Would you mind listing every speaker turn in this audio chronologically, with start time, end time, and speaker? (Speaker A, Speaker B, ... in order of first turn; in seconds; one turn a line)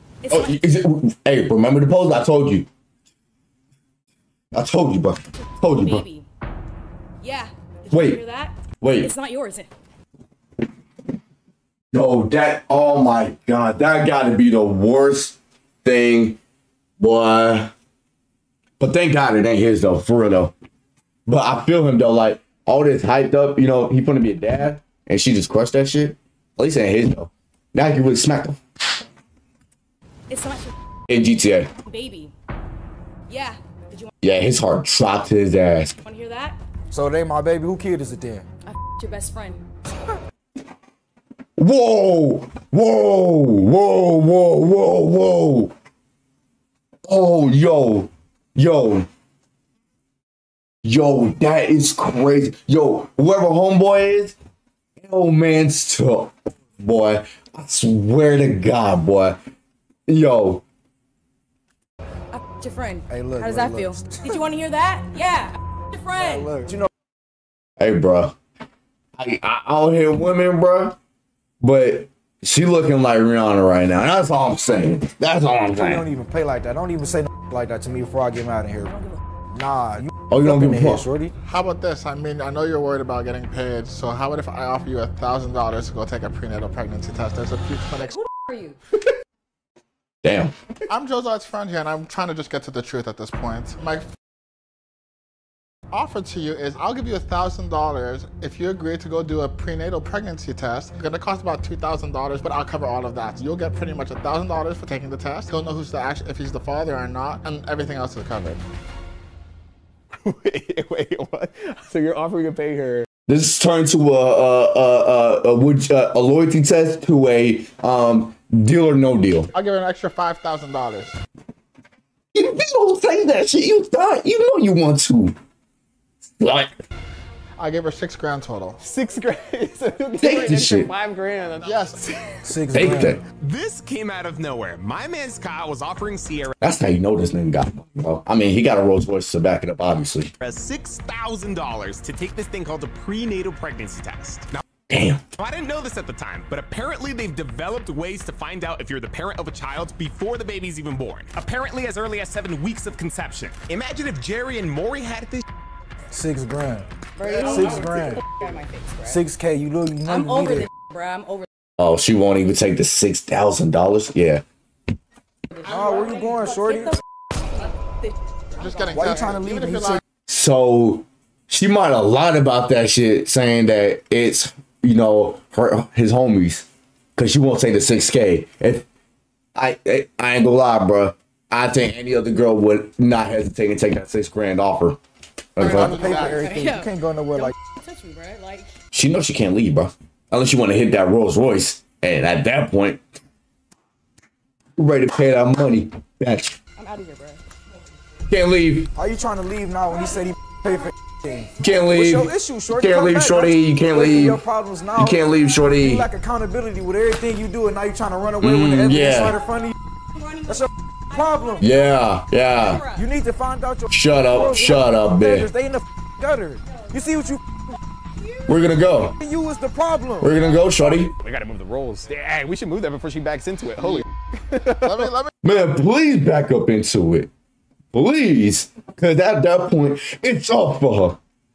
Speaker A: 0.2-0.6
Speaker B: 0.3-2.7
Speaker B: 4.5-6.1
Speaker A: 5.7-6.3
Speaker A: 7.2-9.7
Speaker B: 7.9-8.2
Speaker B: 8.8-9.1
Speaker B: 11.9-16.4
Speaker B: 17.0-17.7
Speaker B: 18.8-20.5
Speaker B: 21.3-28.9
Speaker A: 30.3-30.7
Speaker B: 31.1-31.7
Speaker A: 31.8-32.3
Speaker A: 33.3-34.1
Speaker B: 34.2-36.0
Speaker A: 36.0-36.6
Speaker C: 36.9-38.5
Speaker A: 38.6-39.7
Speaker B: 41.6-45.7
Speaker B: 47.1-49.1
Speaker B: 50.8-54.4
Speaker B: 55.0-59.4
Speaker B: 60.1-60.6
Speaker A: 62.3-66.6
Speaker C: 63.1-64.4
Speaker C: 66.1-66.9
Speaker B: 67.8-68.4
Speaker B: 69.2-71.0
Speaker B: 71.6-76.1
Speaker C: 75.7-79.0
Speaker A: 78.8-79.2
Speaker C: 79.5-81.3
Speaker B: 80.3-81.0
Speaker D: 81.5-88.2
Speaker A: 88.0-88.8
Speaker B: 90.2-90.7
Speaker D: 90.9-94.1
Speaker D: 95.9-108.6
Speaker E: 110.2-113.1
Speaker B: 113.3-119.5
Speaker D: 119.5-121.2
Speaker B: 122.3-125.4
Speaker B: 126.2-126.8
Speaker D: 127.6-128.8
Speaker E: 128.8-132.2
Speaker B: 130.2-130.9
Speaker D: 131.6-132.1
Speaker C: 132.4-133.2
Speaker B: 132.7-133.2
Speaker F: 133.4-136.5
Speaker B: 136.6-140.3
Speaker F: 140.4-144.6
Speaker B: 144.9-145.2
Speaker F: 145.3-155.4
Speaker C: 156.1-158.3
Speaker A: 157.2-159.2
Speaker C: 159.0-160.7
Speaker A: 160.1-161.5
Speaker B: 161.8-164.4
Speaker A: 165.5-169.1
Speaker C: 165.6-167.0
Speaker D: 168.6-170.0
Speaker C: 168.9-170.0
Speaker B: 170.3-178.9
Speaker B: 179.6-185.0
Speaker B: 185.6-186.0
Speaker E: 185.6-186.3
Speaker C: 185.7-187.6
Speaker A: 186.0-188.7
Speaker B: 188.9-193.0
Speaker B: 194.8-196.6
Speaker A: 196.8-197.4
Speaker B: 198.3-198.9
Speaker C: 199.0-209.8
Speaker B: 201.6-204.4
Speaker B: 205.0-206.1
Speaker B: 208.4-209.4
Speaker A: 210.1-213.1
Speaker C: 210.5-211.7
Speaker B: 211.6-212.8
Speaker C: 212.9-217.6
Speaker B: 213.9-215.5
Speaker A: 216.7-217.3
Speaker A: 218.2-218.5
Speaker B: 218.5-219.2
Speaker C: 219.2-220.3
Speaker B: 220.2-221.1
Speaker E: 220.8-225.2
Speaker D: 224.8-225.3
Speaker B: 225.4-227.3
Speaker B: 227.9-231.2